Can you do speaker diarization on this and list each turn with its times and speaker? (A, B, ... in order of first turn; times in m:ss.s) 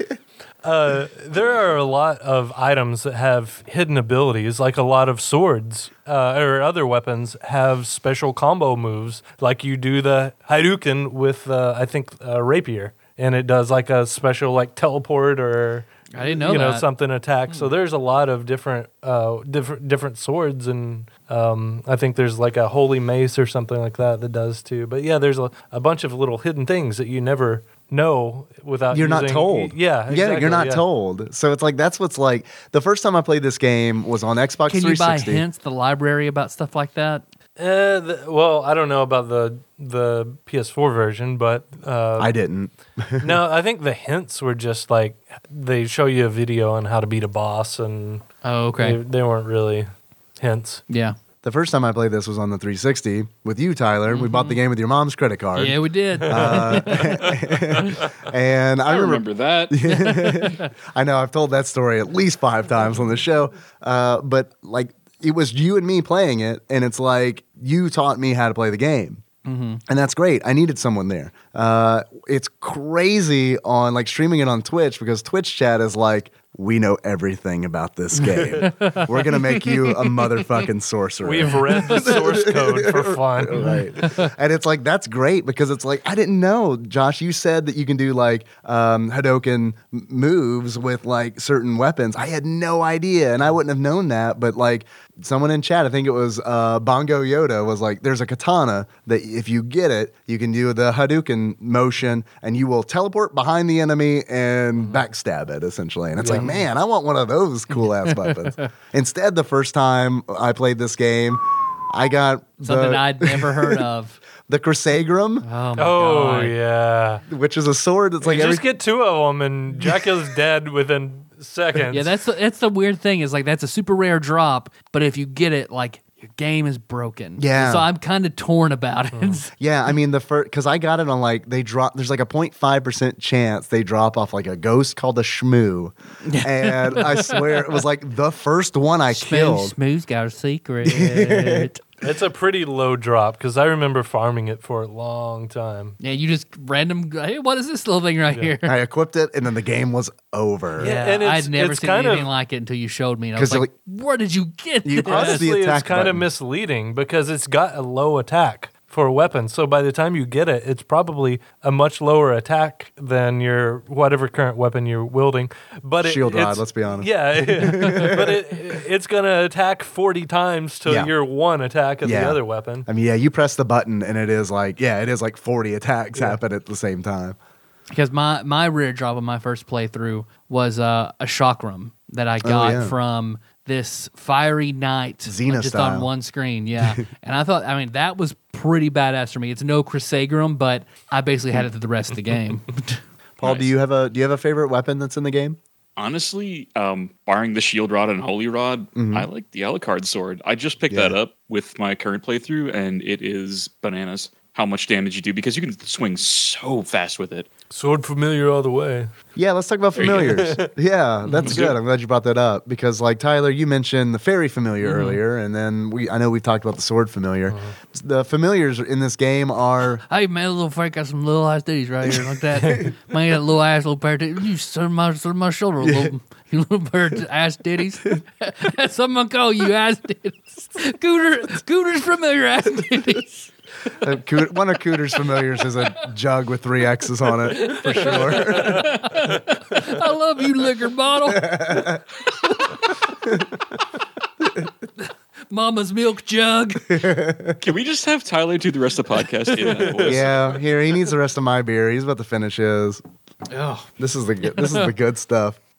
0:00.6-0:30.8 A
0:16.1-0:16.9 B
0:28.9-0:35.4 C
0:34.7-0:37.2 B
0:37.6-0:42.4 A
0:42.2-0:43.4 C
0:43.2-0:48.2 A
0:48.4-0:49.0 B
0:48.8-0:50.8 A
0:50.9-0:51.2 B
0:51.4-1:09.2 C
0:54.1-0:54.6 B
0:55.6-0:58.0 B
0:56.2-0:57.1 A
0:58.9-0:59.8 D
0:59.8-1:00.7 B
1:09.4-1:09.8 B
1:09.9-1:53.8 C
1:18.3-1:19.7 B
1:21.2-1:23.8 A
1:21.8-1:22.0 B
1:23.6-1:24.3 B
1:46.2-1:46.5 A
1:46.2-1:46.6 B
1:48.1-1:48.7 B
1:52.6-1:54.2 B
1:54.4-1:55.5 C
1:55.4-1:56.6 B
1:55.8-1:57.2 A
1:57.3-1:58.7 C
1:58.2-2:02.2 A
2:01.9-2:09.5 B
2:07.4-2:07.9 C
2:09.1-2:09.4 A
2:09.6-2:19.8 C
2:16.2-2:17.8 B
2:19.1-2:21.8 B
2:20.8-2:21.7 C
2:22.0-2:26.0 A
2:26.0-2:28.7 B
2:28.6-2:30.9 C
2:30.8-2:32.3 A
2:30.8-2:35.5 B
2:33.4-2:33.7 C
2:34.8-2:36.3 C
2:35.0-2:52.9 A
2:46.0-2:48.4 C
2:50.9-2:51.1 C
2:52.0-2:57.4 C
2:57.9-3:13.0 B
3:02.4-3:03.0 C
3:05.3-3:06.1 C
3:13.4-3:15.6 C
3:13.4-3:13.7 D
3:16.0-3:27.5 D
3:19.0-3:19.3 C
3:20.9-3:21.2 C
3:27.7-3:29.1 A
3:29.4-3:40.0 C
3:30.0-3:30.5 D
3:30.1-3:30.7 A
3:31.2-3:31.6 B
3:31.4-3:31.8 D
3:34.8-3:35.2 B
3:37.5-3:37.8 A
3:40.1-3:53.5 B
3:42.1-3:42.9 C
3:42.6-3:42.9 A
3:45.8-3:46.1 C
3:54.0-3:59.0 C
3:57.5-4:02.0 B
3:58.1-3:58.9 A
4:01.3-4:02.0 C
4:03.3-4:03.5 C
4:05.0-4:07.0 B
4:06.9-4:07.6 C
4:07.6-4:10.6 D
4:10.0-4:13.0 C
4:13.5-4:13.9 B
4:14.0-4:15.6 C
4:14.5-4:14.9 B